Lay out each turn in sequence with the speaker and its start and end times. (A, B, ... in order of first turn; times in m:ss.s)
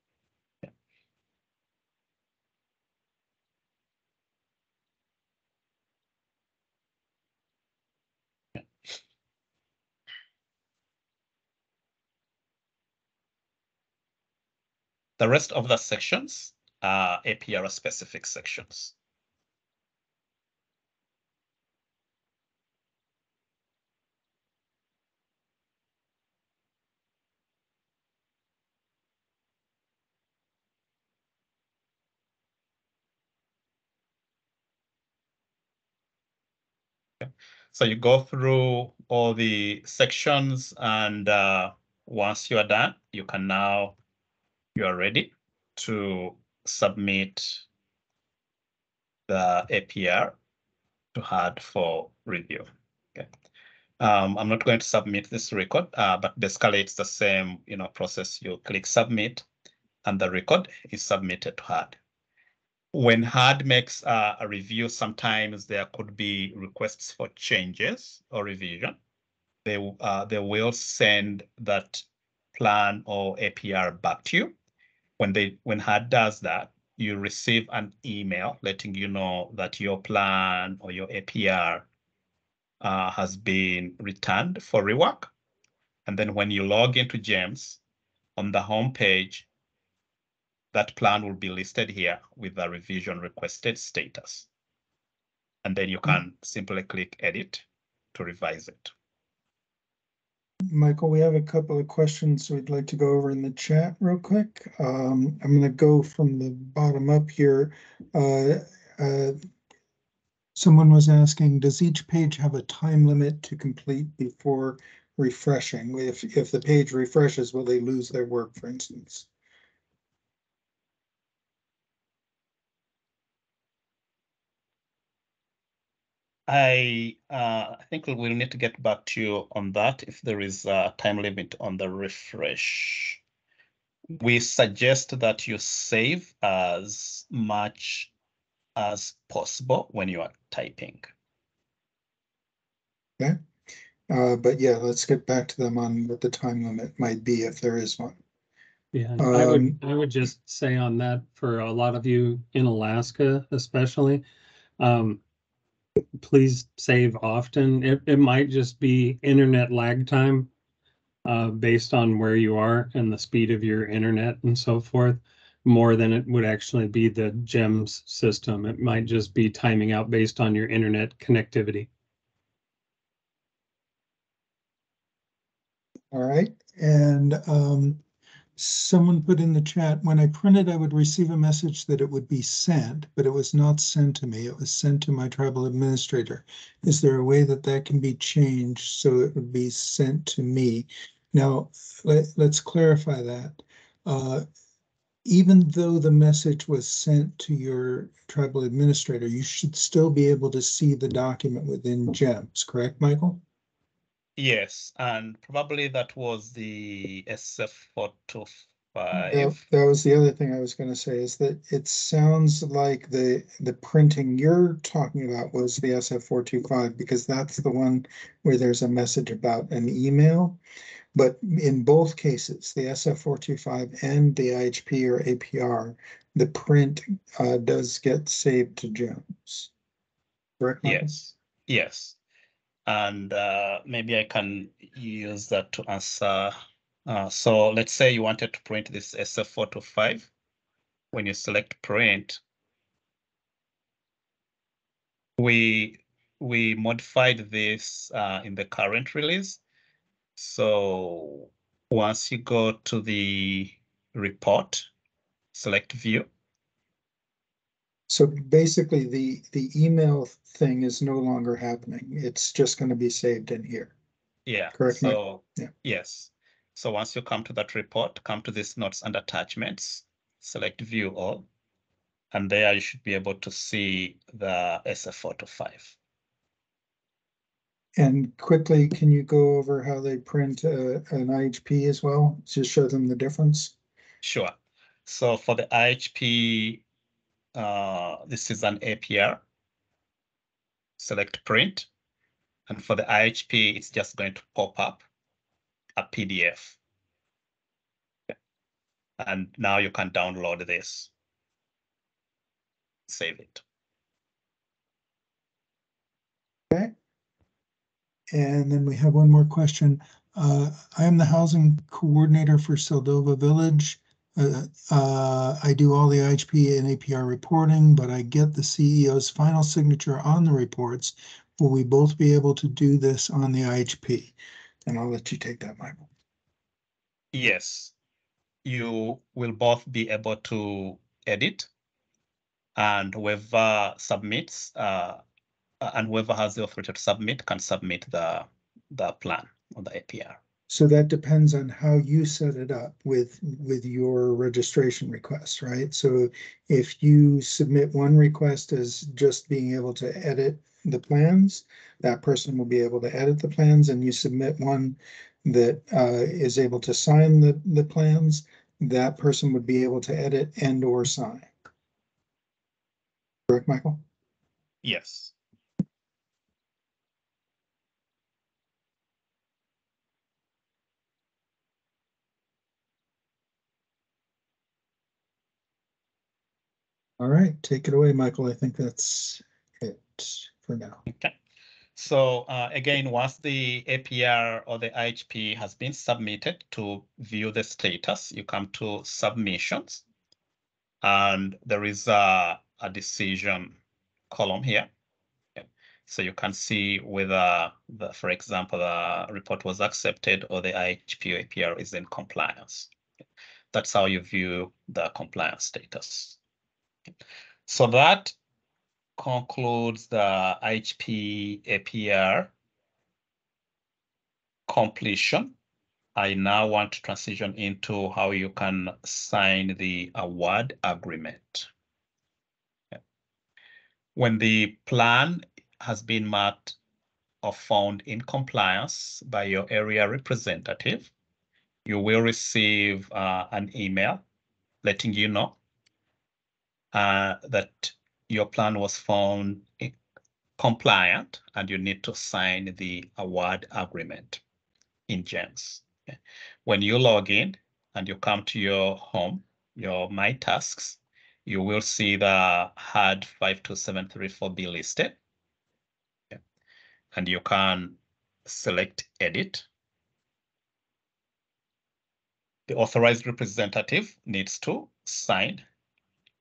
0:15.2-0:18.9 A
0:37.2-0:44.0 A
0:44.7-0:47.6 A
0:49.3-0:50.4 A
0:51.1-0:53.3 A
0:54.0-0:59.4 A
1:00.0-1:02.0 A
1:02.9-1:09.0 A
1:09.6-1:14.6 A
1:15.2-1:21.9 A
1:22.8-1:25.3 A
1:26.0-1:27.8 A
1:28.4-1:29.5 A
1:30.7-1:34.5 A
1:35.6-1:38.9 A
1:40.7-1:49.4 B
1:50.6-1:59.3 B
2:06.5-2:13.2 A
2:14.2-2:18.1 A
2:18.8-2:21.1 A
2:24.1-2:28.2 B
2:28.9-2:34.2 C
2:29.2-2:29.8 B
2:34.8-2:35.2 C
2:36.2-2:40.5 C
2:41.2-2:51.9 C
2:56.1-2:58.0 B
2:58.6-3:14.4 B
3:15.2-3:23.4 B
3:24.4-3:29.6 A
3:29.1-3:40.6 B
3:41.1-3:49.7 B
3:50.6-3:51.3 B
3:50.8-3:52.2 A
3:52.9-3:56.5 A
3:57.0-4:00.3 A
4:01.1-4:02.4 A
4:05.4-4:09.6 A
4:10.4-4:14.9 A
4:15.5-4:16.3 A
4:18.1-4:23.9 B
4:24.4-4:31.5 A
4:24.7-4:25.7 B
4:32.3-4:36.0 A
4:38.0-4:43.7 B
4:44.2-4:44.6 A
4:45.0-4:46.8 A
4:47.5-4:49.4 A
4:51.0-4:51.9 A
4:52.7-4:55.0 A
4:56.0-4:56.8 A
4:59.2-5:01.1 A
5:03.1-5:03.6 A
5:08.3-5:24.3 B
5:24.9-5:26.1 B
5:27.3-5:27.9 A
5:28.6-5:31.7 A
5:32.8-5:35.2 A
5:35.8-5:40.4 A
5:40.7-6:01.5 B
6:03.5-6:04.0 B
6:04.8-6:05.3 A
6:17.2-6:21.0 B
6:21.1-6:21.3 A
6:22.0-6:30.0 A
6:31.0-6:33.8 A
6:34.3-6:34.9 A
6:35.6-6:42.9 A
6:43.7-6:46.4 A
6:47.7-6:48.3 A
6:49.2-6:52.5 A
6:54.7-6:55.6 A
6:56.1-7:01.7 A
7:04.2-7:06.8 A
7:07.4-7:11.1 A
7:11.8-7:14.2 A
7:14.8-7:15.6 A
7:16.9-7:20.0 A
7:20.6-7:24.4 A
7:25.1-7:35.2 A
7:37.1-7:39.6 A
7:42.7-7:45.6 A